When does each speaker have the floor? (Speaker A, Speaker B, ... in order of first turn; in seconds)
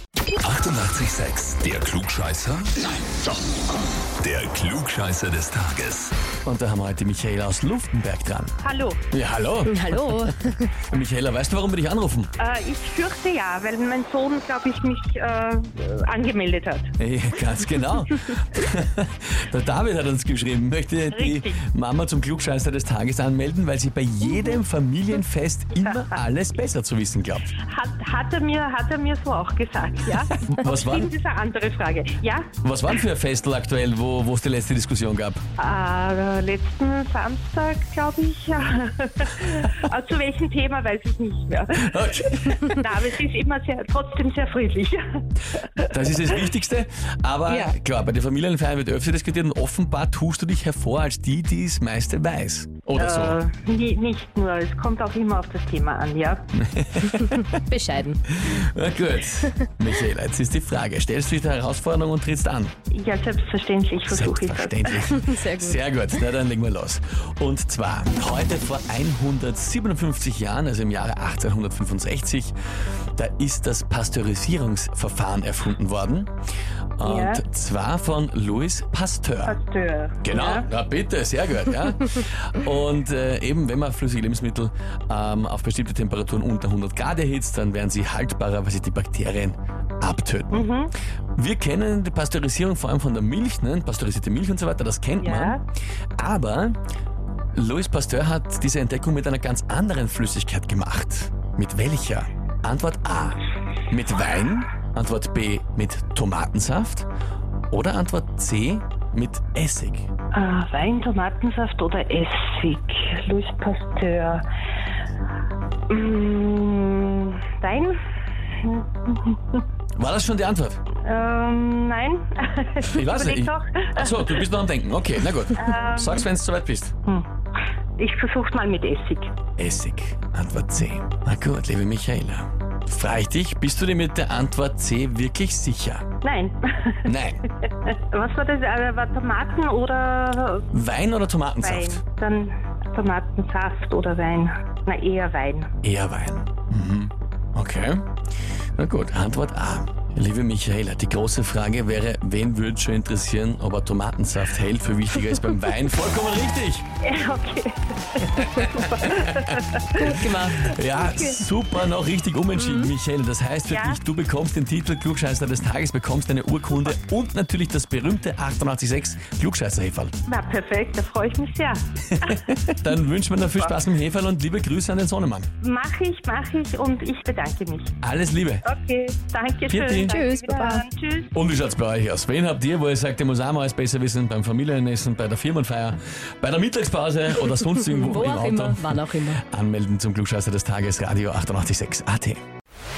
Speaker A: 0.4-3.2, 4.2-6.1
Speaker B: 6.5-8.6, 9.1-12.3, 17.0-27.5, 30.4-31.1, 32.6-35.4, 41.8-42.9, 45.8-53.4, 56.6-57.4, 58.3-62.7, 64.1-72.5, 73.2-76.3, 77.0-79.6, 80.2-90.7, 91.4-95.6, 96.2-96.8, 97.5-107.1, 107.7-110.1, 120.0-120.8, 122.8-126.9, 129.6-136.1, 137.1-137.4, 140.7-142.0, 145.8-148.0, 148.8-156.8, 158.3-170.1, 172.2-175.5, 178.0-178.7, 179.7-180.2, 181.3-192.4
Speaker C: 8.6-9.0, 12.4-16.9, 21.1-21.6, 25.8-26.1, 27.7-32.5, 35.6-46.4, 47.5-47.8, 53.0-56.5, 62.9-65.1, 77.0-77.4, 79.4-80.7, 90.5-90.9, 95.2-95.6, 110.3-114.4, 115.9-118.0, 118.6-119.6, 121.0-124.5, 125.5-126.3, 128.0-129.3, 136.2-137.1, 137.6-140.7, 141.6-145.7, 157.0-160.2, 163.7-164.0, 170.3-172.4, 173.4-173.8, 175.6-177.9, 178.6-181.3
Speaker D: 9.7-10.8, 57.5-58.2, 65.2-65.8, 160.0-160.8, 162.6-162.9, 180.1-180.8, 187.9-189.4